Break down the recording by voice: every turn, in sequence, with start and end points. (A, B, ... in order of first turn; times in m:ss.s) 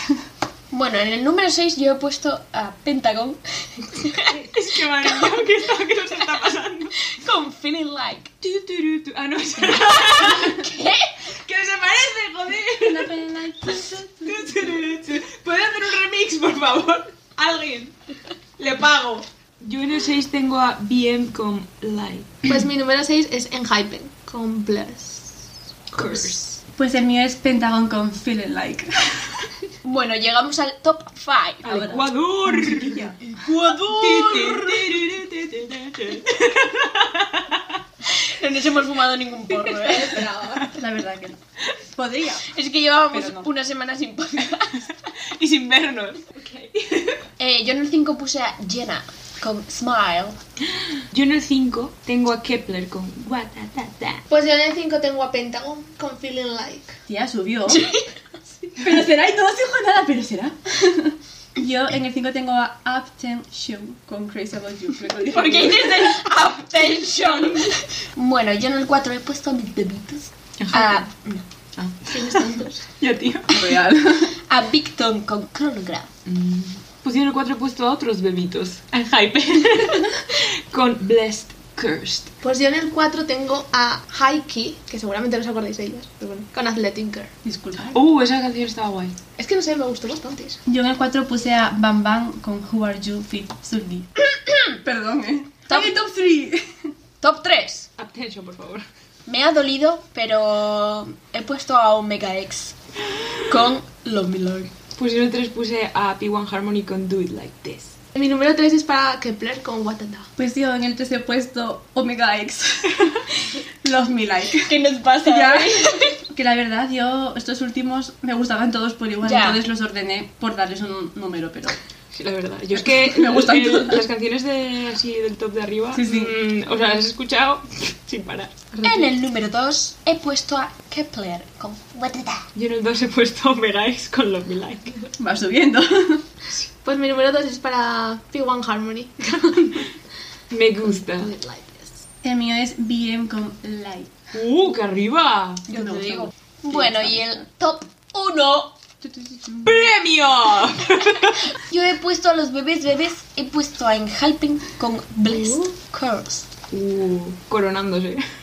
0:00.7-0:04.3 A
0:04.3-0:07.0 B
0:07.1-0:08.3 A
0:08.4-0:10.7 B
0:09.7-0:11.1 A
0:11.3-0:17.9 B
0:12.8-0:14.8 C
0:18.6-0:22.4 B
0:22.5-0:25.4 D
0:25.9-0:26.6 B
0:26.0-0:26.4 A
0:26.8-0:29.4 C
0:29.8-0:32.0 A
0:31.6-0:33.1 B
0:31.6-0:33.2 C
0:33.2-0:34.9 A
0:33.8-0:37.6 B
0:38.1-0:40.3 A
0:39.5-0:40.8 D
0:40.8-0:41.4 C
0:41.9-0:42.4 C
0:42.4-0:44.8 A
0:43.1-0:43.5 C
0:45.3-0:47.2 B
0:47.4-0:50.4 A
0:51.1-0:54.2 B
0:54.3-0:57.0 D
0:57.1-0:57.8 C
0:57.7-0:58.1 A
0:58.8-1:06.1 C
1:05.3-1:11.4 A
1:07.2-1:07.7 B
1:10.6-1:11.1 B
1:11.8-1:13.8 B
1:12.1-1:12.7 D
1:12.2-1:12.6 A
1:13.5-1:14.3 C
1:14.4-1:16.1 A
1:16.2-1:22.3 B
1:22.4-1:27.3 D
1:27.4-1:28.0 C
1:27.9-1:29.2 B
1:29.3-1:30.6 D
1:30.7-1:34.1 C
1:34.4-1:34.7 A
1:34.8-1:36.8 C
1:35.7-1:36.0 A
1:37.2-1:37.9 A
1:38.0-1:38.8 B
1:39.2-1:42.8 A
1:43.4-1:44.7 A
1:45.0-1:48.0 B
1:48.1-1:50.3 D
1:50.4-2:01.8 C
1:54.6-1:56.1 A
1:59.2-1:59.6 A
2:02.1-2:09.1 B
2:02.7-2:04.0 C
2:05.9-2:06.4 C
2:08.8-2:12.4 A
2:12.5-2:15.0 B
2:15.2-2:16.2 C
2:16.8-2:19.9 D
2:20.5-2:21.3 B
2:20.9-2:22.0 D
2:22.2-2:24.1 C
2:24.3-2:25.6 B
2:25.7-2:28.8 A
2:25.7-2:27.2 C
2:29.0-2:29.9 C
2:29.6-2:31.4 B
2:31.6-2:36.5 A
2:36.7-2:38.2 B